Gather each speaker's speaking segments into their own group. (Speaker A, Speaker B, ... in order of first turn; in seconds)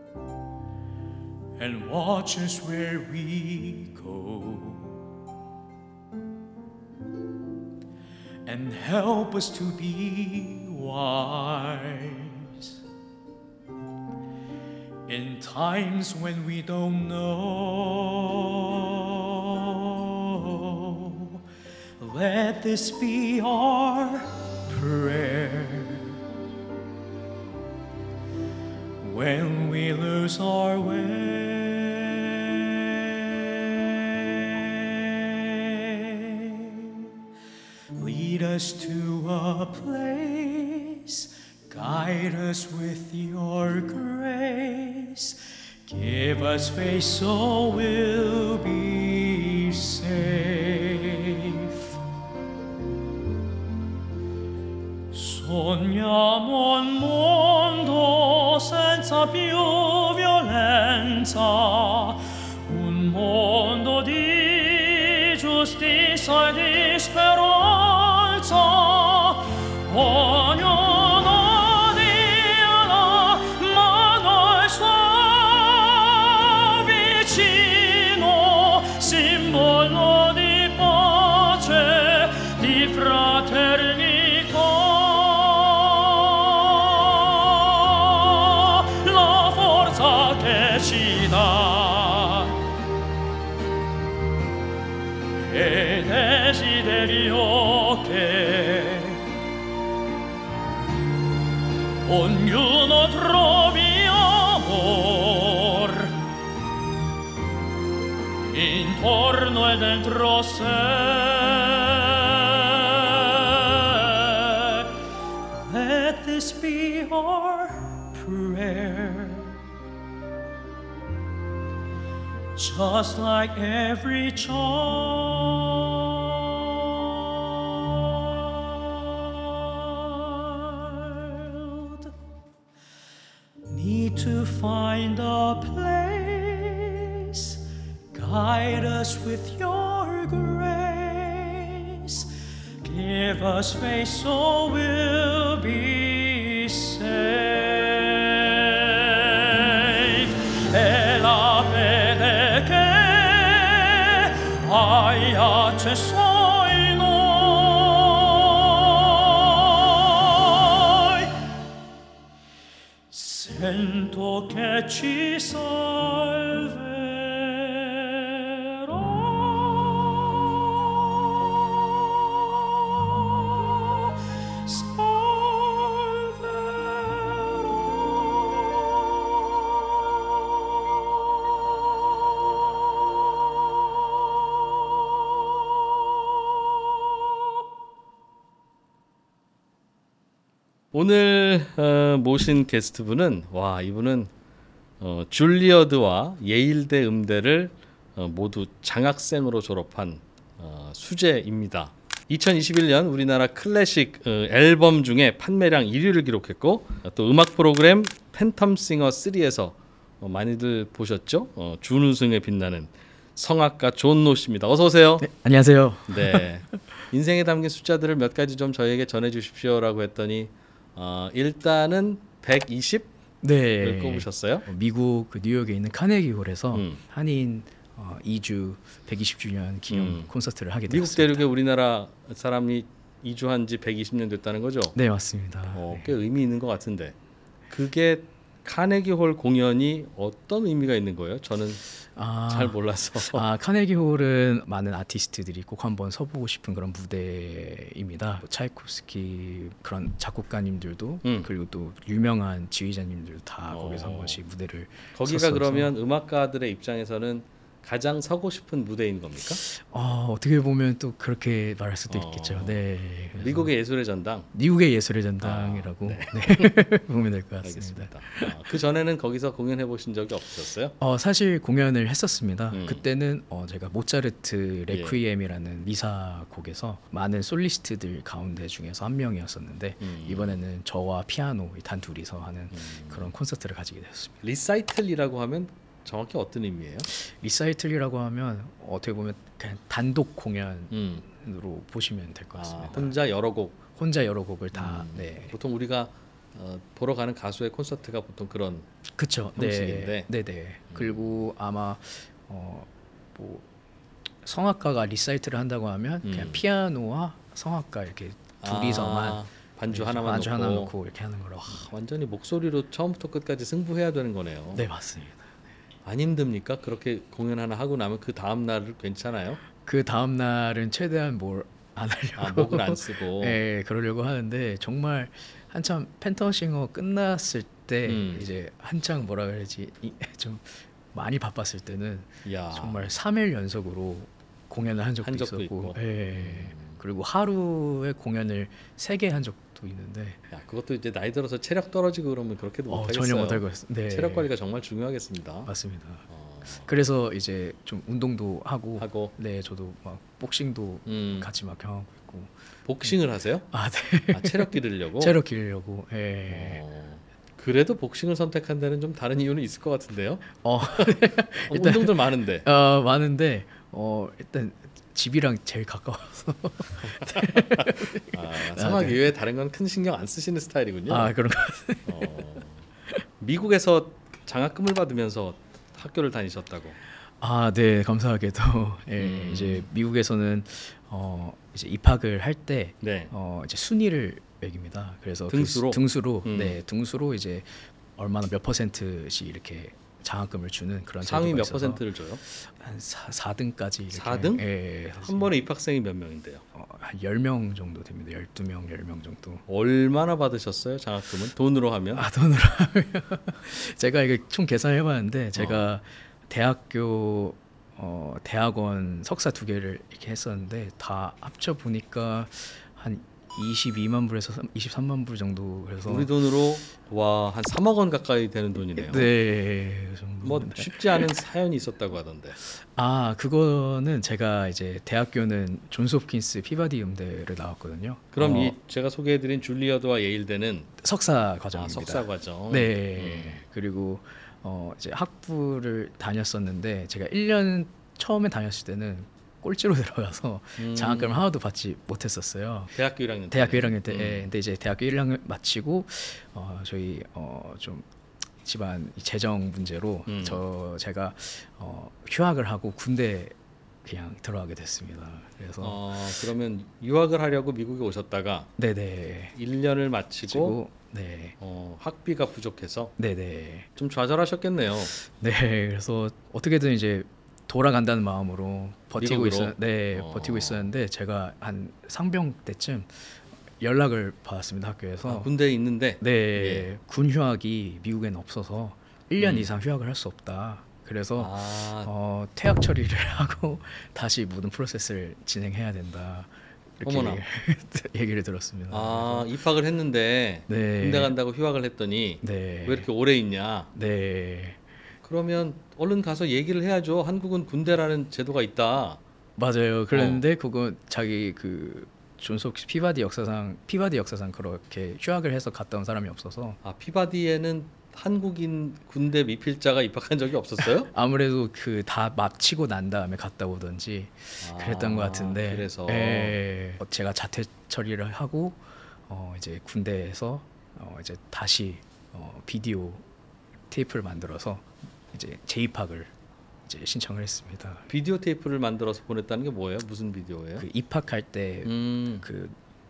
Speaker A: 1.6-5.0, 8.5-12.7, 15.1-21.4, 22.0-26.1, 29.0-37.0, 38.0-52.0, 55.1-92.6, 95.4-99.2, 102.0-106.2, 108.5-114.9, 115.7-119.5, 122.6-132.1, 133.7-137.6, 138.1-142.3, 142.8-161.3, 163.1-170.8, 172.3-173.2, 174.6-177.9
Speaker B: 190.9-194.3, 195.0-215.3, 216.1-223.1, 223.8-224.7, 226.7-227.0, 229.9-230.3, 230.9-235.0, 235.7-237.2, 237.7-241.8, 242.5-243.4, 251.2-251.5, 253.7-254.4, 255.1-259.6, 262.1-262.8, 263.4-264.5, 265.4-266.8, 267.6-271.0, 272.7-273.0, 274.9-275.2, 280.0-280.5, 282.7-283.3, 284.4-287.1, 290.9-291.2, 292.6-293.8, 294.7-298.9, 299.6-300.3, 300.9-301.4, 306.2-306.6, 308.6-310.9, 311.6-314.9, 316.1-319.6, 322.4-323.6, 328.1-328.5, 332.4-333.1, 335.2-337.0, 340.5-345.7, 346.3-346.9, 349.0-349.3, 351.1-351.5, 352.9-353.7, 354.3-355.4, 356.5-362.7, 367.2-371.3, 372.1-372.9, 373.4-377.0, 379.2-379.9, 383.0-383.3, 385.5-386.8, 391.2-392.4, 394.1-394.6, 395.2-396.6, 399.7-402.3, 405.6-405.9, 416.0-419.3, 420.4-422.6, 428.3-430.9, 431.7-433.6, 440.8-441.4, 442.9-444.5, 450.3-450.6, 455.8-458.7, 459.5-460.8, 461.6-463.1, 464.0-465.1, 469.2-470.9, 475.2-476.9, 479.4-479.7, 481.4-482.1, 487.0-487.4, 488.9-493.9, 495.2-499.2, 500.1-500.4, 506.8-511.1, 514.6-516.6, 528.1-530.9, 531.9-532.5
Speaker C: 215.2-216.5, 223.4-231.5, 234.9-236.1, 242.2-255.9, 259.6-263.7, 264.5-268.6, 271.0-284.4, 287.1-293.2, 293.9-295.5, 299.2-303.6, 304.4-311.9, 314.7-315.5, 319.8-340.4, 342.9-344.5, 345.7-346.2, 346.9-352.5, 353.7-356.8, 360.6-369.2, 371.1-372.3, 377.4-395.5, 396.7-399.6, 402.1-416.3, 419.0-421.3, 422.8-428.8, 431.0-442.9, 443.5-448.1, 448.6-456.0, 458.8-459.6, 460.5-461.6, 463.2-463.9, 465.2-473.3, 473.8-475.5, 476.2-489.5, 490.7-491.4, 492.4-493.1, 493.9-494.8, 499.6-506.8, 510.8-523.2, 523.9-526.3, 526.9-528.1, 530.8-532.8